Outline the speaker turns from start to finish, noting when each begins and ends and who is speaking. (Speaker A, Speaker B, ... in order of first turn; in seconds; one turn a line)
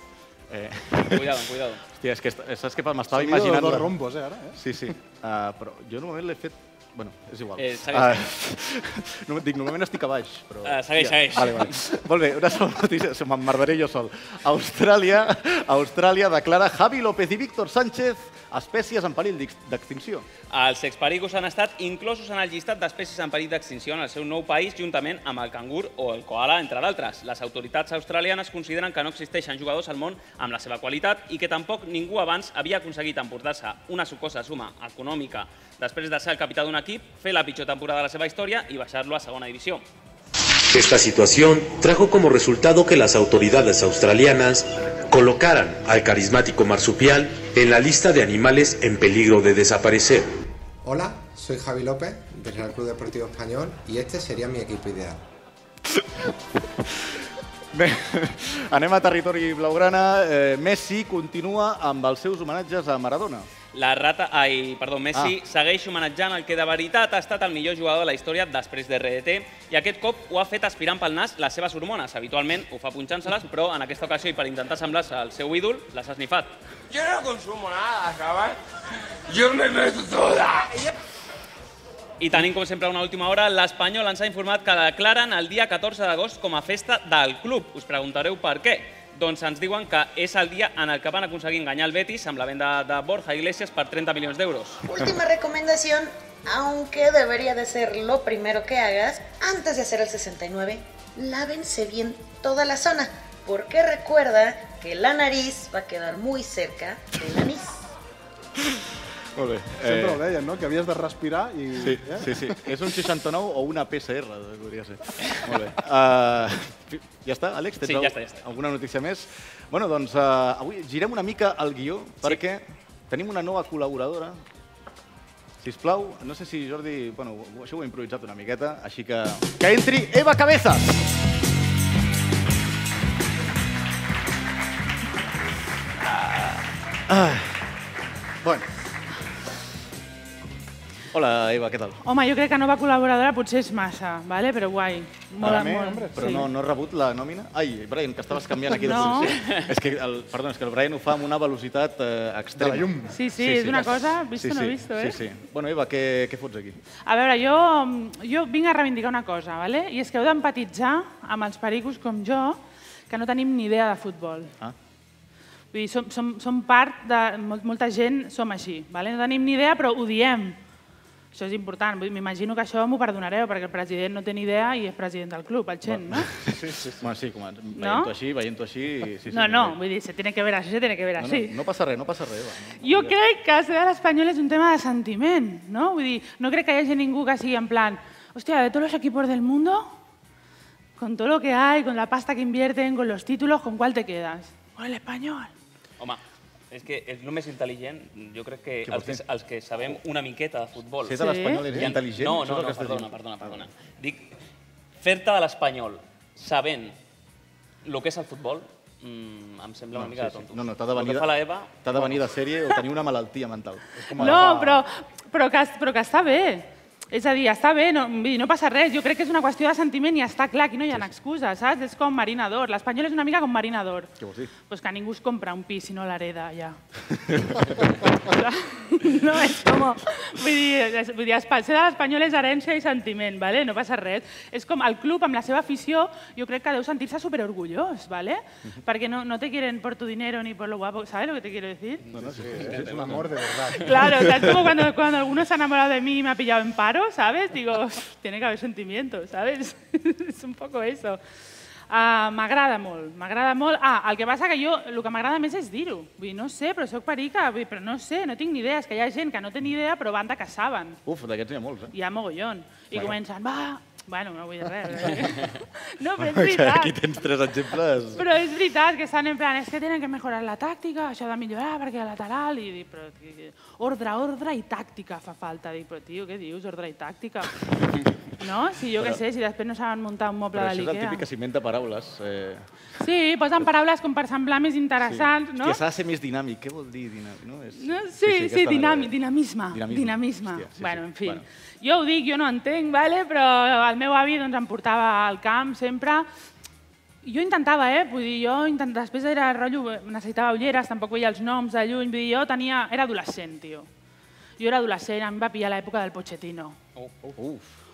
Speaker A: 0.5-1.4
Speaker B: 1.0-1.8
Speaker A: 1.9-3.9
Speaker C: 3.1-4.6
Speaker A: 4.5-20.3
Speaker B: 7.6-8.3
Speaker B: 10.6-11.8
Speaker B: 20.5-39.8
Speaker D: 40.7-50.3
Speaker E: 50.8-55.2
Speaker A: 57.7-63.5
Speaker B: 63.7-76.5
Speaker F: 76.9-78.6
Speaker F: 79.3-80.9
Speaker B: 82.2-94.8
Speaker G: 94.8-107.8
Speaker A: 108.6-110.2
Speaker C: 109.8-112.6
Speaker A: 111.8-124.4
Speaker B: 117.8-118.4
Speaker A: 125.6-131.1
Speaker A: 136.1-136.6
Speaker A: 137.1-137.6
Speaker A: 141.1-142.0
Speaker H: 142.0-146.5
Speaker C: 145.4-146.4
Speaker A: 145.4-156.8
Speaker H: 148.8-149.4
Speaker B: 149.4-149.7
Speaker C: 152.6-153.2
Speaker H: 153.1-155.2
Speaker H: 157.1-164.5
Speaker H: 165.7-170.6
Speaker H: 171.3-176.3
Speaker A: 175.9-179.8
Speaker C: 176.5-177.0
Speaker H: 177.7-178.1
Speaker H: 179.3-181.6
Speaker A: 181.2-183.2
Speaker H: 182.8-190.0
Speaker H: 191.0-195.5
Speaker B: 196.0-204.3
Speaker A: 198.8-199.2
Speaker A: 201.0-203.6
Speaker H: 201.2-201.7
Speaker B: 205.0-206.9
Speaker B: 207.8-211.8
Speaker A: 209.9-214.4
Speaker C: 213.9-214.8
Speaker H: 214.2-224.1
Speaker A: 224.2-224.5
Speaker H: 224.7-226.8
Speaker A: 227.3-227.8
Speaker H: 227.7-242.0
Speaker A: 242.1-243.3
Speaker B: 242.1-243.3
Speaker C: 242.2-244.1
Speaker H: 243.7-251.2
Speaker H: 251.9-261.0
Speaker A: 261.1-261.9
Speaker H: 261.9-267.0
Speaker A: 262.9-263.2
Speaker A: 266.2-268.3
Speaker H: 268.1-277.5
Speaker H: 278.4-281.2
Speaker A: 280.5-282.6
Speaker H: 283.0-285.8
Speaker A: 285.0-289.1
Speaker H: 287.8-296.3
Speaker A: 289.7-291.4
Speaker H: 297.2-303.9
Speaker H: 304.6-306.8
Speaker A: 307.3-307.7